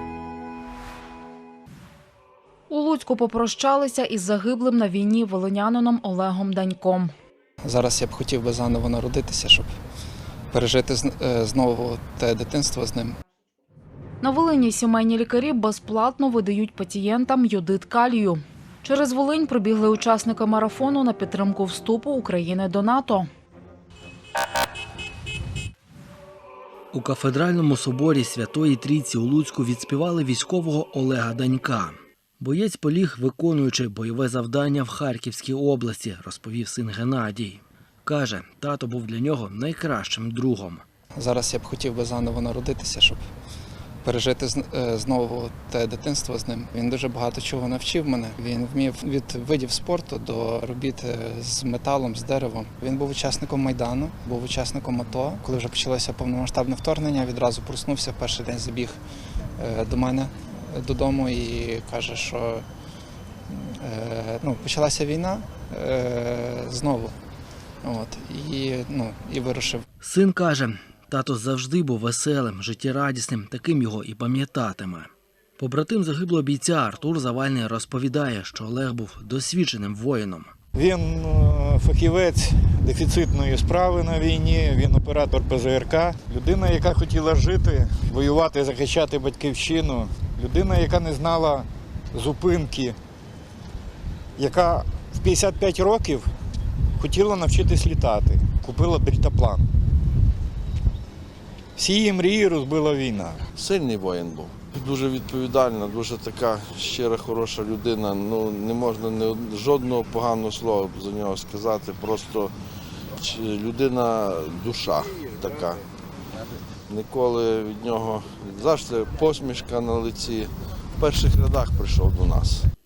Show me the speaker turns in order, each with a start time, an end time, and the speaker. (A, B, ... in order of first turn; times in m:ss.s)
0:02.7-0:07.1 A
0:07.6-0:09.7 B
0:10.5-0:13.2 B
0:14.2-0:23.2 A
0:26.9-0:40.8 C
0:41.2-0:43.2 B
0:44.0-0:59.0 B
0:59.6-1:02.6 B
1:03.5-1:07.2 B
1:07.8-1:09.9 B
1:10.0-1:20.5 C
1:20.8-1:31.6 D
1:32.2-1:32.9 D
1:34.4-1:36.2 D
1:37.0-1:39.6 D
1:41.8-1:43.3 D
1:43.6-1:52.5 E
1:53.2-1:55.8 E
1:56.9-2:02.6 E